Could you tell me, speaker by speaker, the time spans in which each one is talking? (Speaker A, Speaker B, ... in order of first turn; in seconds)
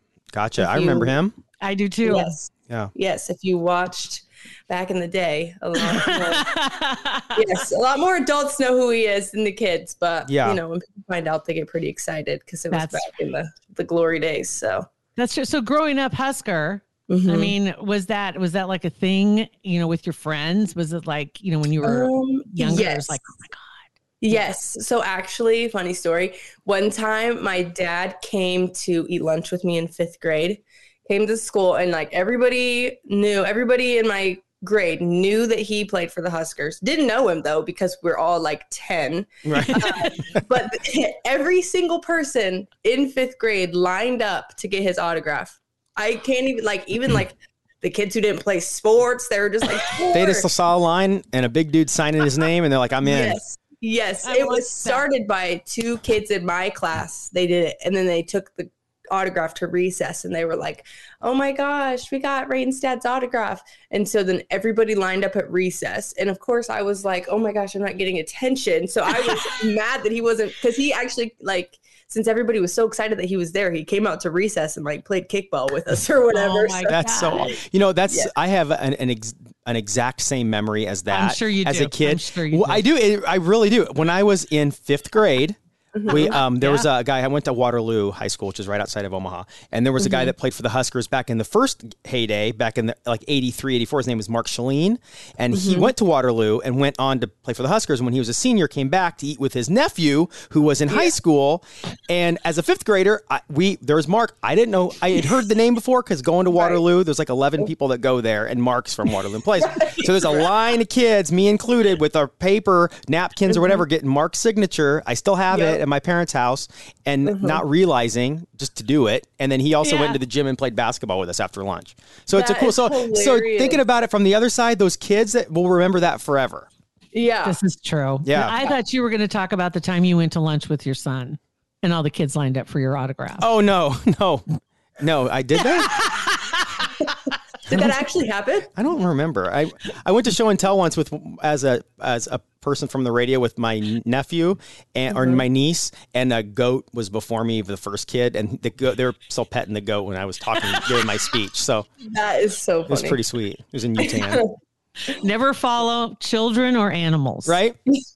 Speaker A: 0.3-1.4, 10.3-10.6, 39.5-40.4, 50.1-53.4, 76.9-126.7, 128.2-128.7, 133.4-134.4, 135.0-136.0, 138.8-151.9, 152.9-154.4, 157.5-157.8
Speaker B: 0.6-1.2, 2.0-6.5, 7.3-14.9, 17.1-17.6, 21.8-23.2, 24.2-50.5, 53.0-77.5, 86.0-86.4, 90.0-90.3, 95.5-95.9, 100.9-101.2, 106.5-106.8, 109.6-110.5, 113.5-113.8, 115.5-115.8, 117.2-117.6, 122.3-123.8, 127.1-127.6, 137.7-138.7, 145.1-145.4, 152.1-153.2, 154.0-154.5
Speaker C: 1.6-2.3, 5.8-7.4, 12.7-13.1, 15.2-23.8, 39.6-40.3, 54.2-55.1, 76.3-77.6, 81.1-82.9, 86.1-86.9, 119.8-120.2, 127.4-133.5, 135.6-137.1, 150.8-151.0, 155.1-157.6